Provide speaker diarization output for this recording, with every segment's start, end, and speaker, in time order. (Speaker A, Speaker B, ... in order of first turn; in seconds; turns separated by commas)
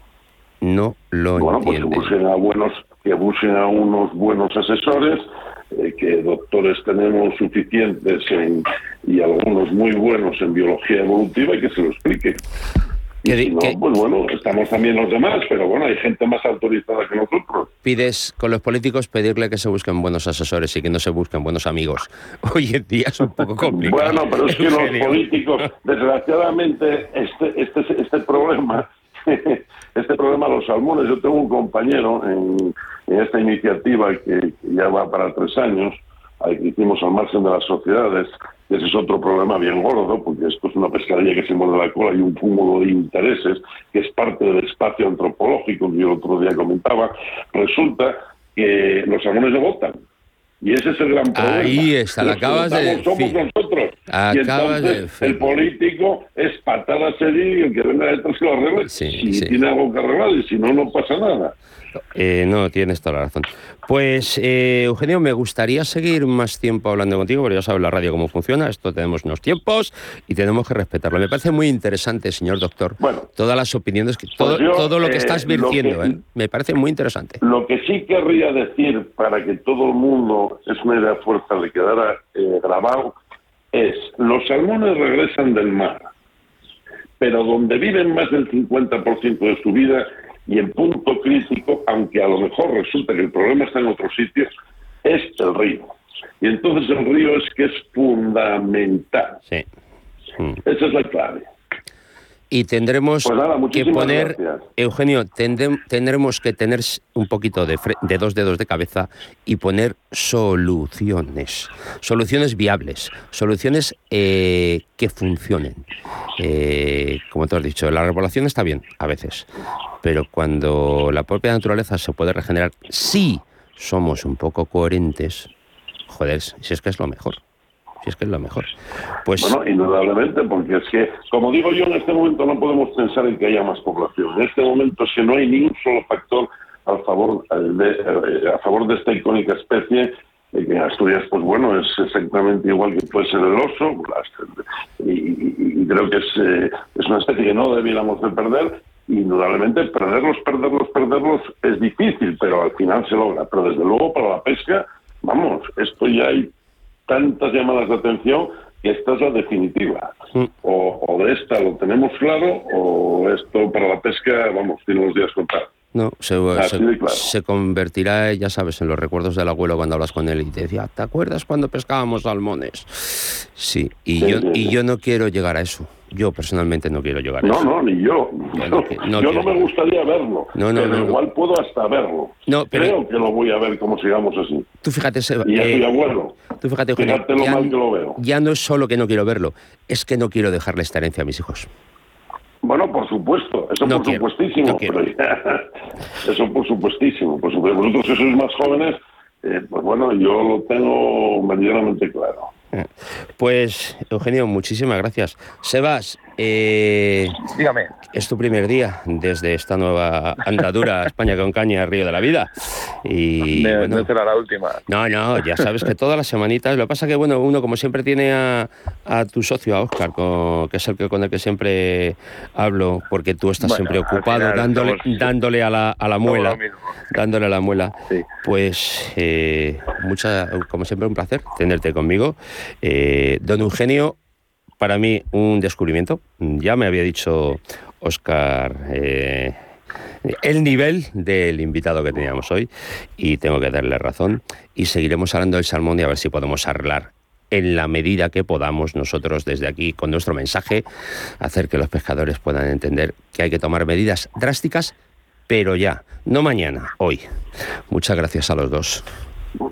Speaker A: 0.6-2.1, Speaker B: 1.4-12.4, Speaker B: 13.2-17.7, Speaker A: 13.2-13.8, Speaker A: 17.8-25.2, Speaker B: 23.7-50.0, Speaker B: 50.6-61.5, Speaker A: 51.3-53.4, Speaker A: 54.1-55.6, Speaker A: 58.8-59.6, Speaker A: 62.1-77.4, Speaker B: 73.0-73.3, Speaker B: 74.4-76.2, Speaker B: 77.4-83.2, Speaker B: 83.7-86.1, Speaker B: 87.2-94.5, Speaker B: 95.0-99.4, Speaker B: 100.6-101.5, Speaker A: 102.5-115.9, Speaker B: 103.2-104.7, Speaker A: 116.4-119.5, Speaker A: 120.0-125.5, Speaker A: 126.1-127.4, Speaker A: 128.0-129.6, Speaker B: 129.4-156.5, Speaker B: 157.1-165.7, Speaker A: 165.9-177.7, Speaker B: 166.5-167.3, Speaker B: 174.2-174.7, Speaker B: 177.4-184.7, Speaker A: 178.6-179.7, Speaker A: 180.5-181.2, Speaker A: 182.5-183.0, Speaker A: 184.8-185.9, Speaker B: 185.4-186.4, Speaker A: 186.5-191.7, Speaker B: 186.9-188.2, Speaker B: 192.6-195.7, Speaker A: 193.8-195.0, Speaker B: 196.2-202.5, Speaker A: 202.7-207.4, Speaker C: 207.5-207.9, Speaker A: 208.1-214.1, Speaker C: 213.5-214.8, Speaker A: 214.9-226.6, Speaker C: 223.6-225.3, Speaker C: 226.2-226.9, Speaker A: 227.1-234.2, Speaker A: 234.8-239.6, Speaker A: 240.2-250.8, Speaker A: 251.4-254.9, Speaker A: 255.5-257.2, Speaker A: 257.9-259.0